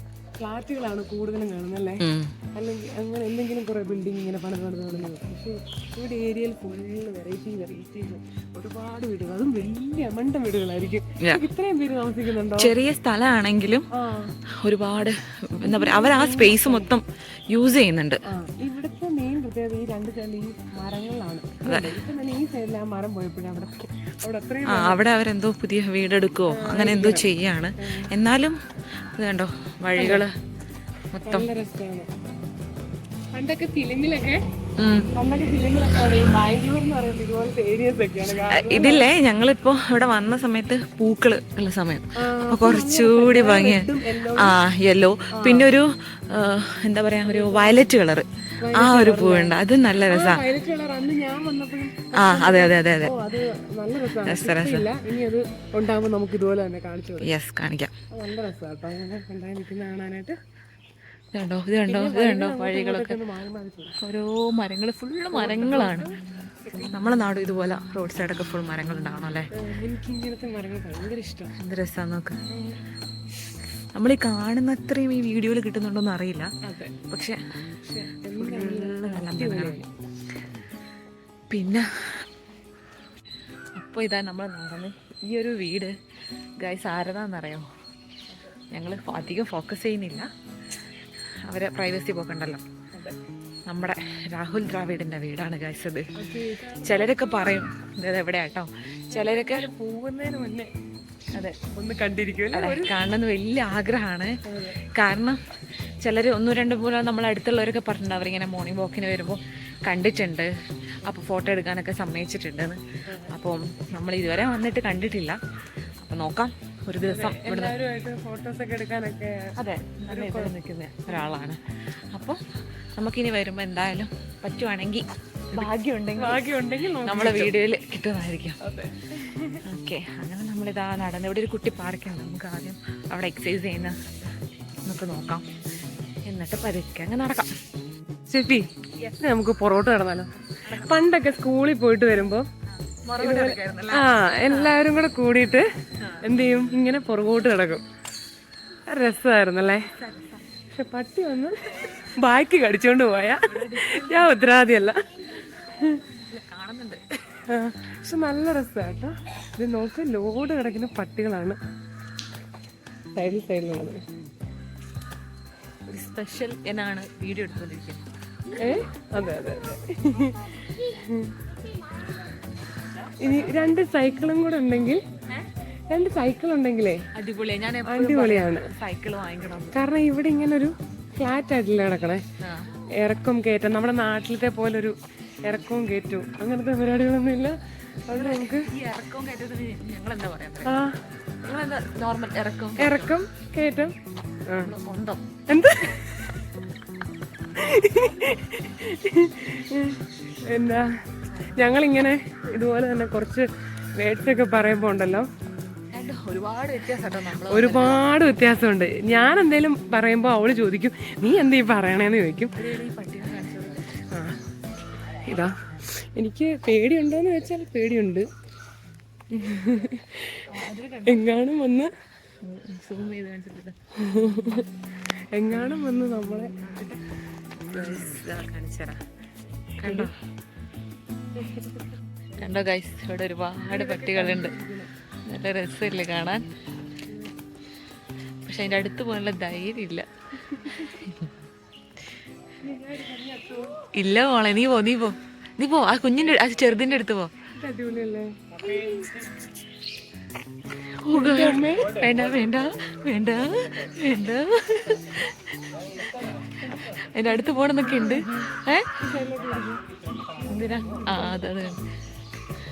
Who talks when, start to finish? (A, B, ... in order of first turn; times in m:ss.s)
0:00.4-0:02.0 A
0:02.0-0:02.3 B
0:02.6-0:12.8 A
0:12.6-0:13.9 B
0:14.0-0:14.4 A
0:14.6-0:18.2 B
0:15.6-0:16.9 A
0:18.3-0:25.0 A
0:21.6-0:21.9 B
0:24.7-0:28.6 B
0:26.5-0:27.3 A
0:27.8-0:28.1 A
0:29.2-0:30.4 B
0:30.0-0:30.3 A
0:31.1-0:31.5 B
0:31.3-0:32.1 A
0:33.3-0:34.4 A
0:34.8-0:35.1 B
0:35.1-0:39.1 A
0:38.5-0:50.4 B
0:42.2-0:44.6 A
0:45.3-0:45.7 A
0:47.2-0:48.0 A
0:48.6-0:57.3 A
0:52.1-0:53.2 B
0:54.2-0:54.9 B
0:57.2-0:57.9 B
0:58.1-1:00.4 A
1:01.3-1:03.2 B
1:01.9-1:04.0 A
1:04.0-1:06.1 B
1:05.3-1:07.0 A
1:06.8-1:09.5 B
1:09.5-1:11.5 A
1:11.6-1:12.4 B
1:14.0-1:16.5 B
1:16.6-1:16.9 A
1:17.1-1:17.4 B
1:17.8-1:19.9 A
1:18.4-1:19.8 B
1:21.5-1:22.3 B
1:23.8-1:25.9 B
1:26.6-1:27.7 B
1:28.3-1:28.6 A
1:28.7-1:30.3 B
1:31.5-1:32.6 B
1:33.7-1:36.1 B
1:36.2-1:37.7 A
1:36.8-1:39.7 B
1:39.1-1:40.7 A
1:41.7-1:42.9 A
1:42.5-1:44.4 B
1:44.5-1:44.8 A
1:44.9-1:45.4 B
1:46.0-1:50.5 B
1:51.0-1:52.8 B
1:53.1-1:53.3 A
1:53.3-1:55.4 B
1:56.0-1:57.8 B
1:57.1-1:59.5 A
1:59.6-2:01.6 B
2:00.1-2:00.5 A
2:02.1-2:02.4 B
2:03.0-2:06.5 B
2:05.5-2:07.6 A
2:07.0-2:08.6 B
2:08.6-2:09.6 A
2:09.6-2:14.0 B
2:14.8-2:15.4 B
2:16.3-2:17.5 B
2:18.3-2:18.7 A
2:19.2-2:22.5 A
2:20.6-2:21.0 B
2:22.9-2:24.9 B
2:23.2-2:25.7 A
2:26.2-2:27.8 A
2:28.9-2:29.9 A
2:29.8-2:30.4 B
2:30.7-2:36.0 A
2:33.4-2:34.3 B
2:36.3-2:37.0 B
2:37.3-2:41.6 A
2:43.2-2:44.0 A
2:45.9-2:48.1 B
2:48.6-2:51.3 A
2:53.2-2:55.0 A
2:55.9-2:57.0 A
2:57.2-2:59.8 B
2:57.9-2:58.7 A
2:59.7-3:02.2 A
3:02.4-3:02.7 B
3:03.0-3:08.7 A
3:08.1-3:10.8 B
3:10.7-3:11.0 A
3:11.4-3:13.2 B
3:12.8-3:14.0 A
3:14.5-3:14.7 A
3:14.6-3:15.2 B
3:15.5-3:16.3 A
3:17.6-3:20.9 A
3:21.3-3:21.8 B
3:21.6-3:25.3 A
3:25.9-3:28.1 B
3:27.5-3:32.6 A
3:32.6-3:33.9 B
3:34.1-3:34.4 A
3:35.2-3:38.3 A
3:39.3-3:40.5 A
3:40.5-3:41.3 B
3:41.1-3:41.9 A
3:42.4-3:43.8 B
3:44.0-3:44.7 A
3:45.3-3:46.5 A
3:46.6-3:47.0 B
3:47.6-3:49.0 B
3:49.8-3:50.1 B
3:49.8-3:50.1 A
3:51.4-3:51.9 A
3:52.4-3:54.5 B
3:53.7-3:54.9 A
3:55.3-3:56.5 B
3:58.4-4:00.1 B
4:00.5-4:00.9 A
4:00.6-4:01.2 B
4:02.6-4:03.8 A
4:03.9-4:07.3 B
4:07.5-4:09.3 A
4:11.0-4:15.8 B
4:11.1-4:12.0 A
4:16.0-4:19.8 A
4:17.0-4:18.9 B
4:20.4-4:21.4 A
4:20.4-4:21.8 B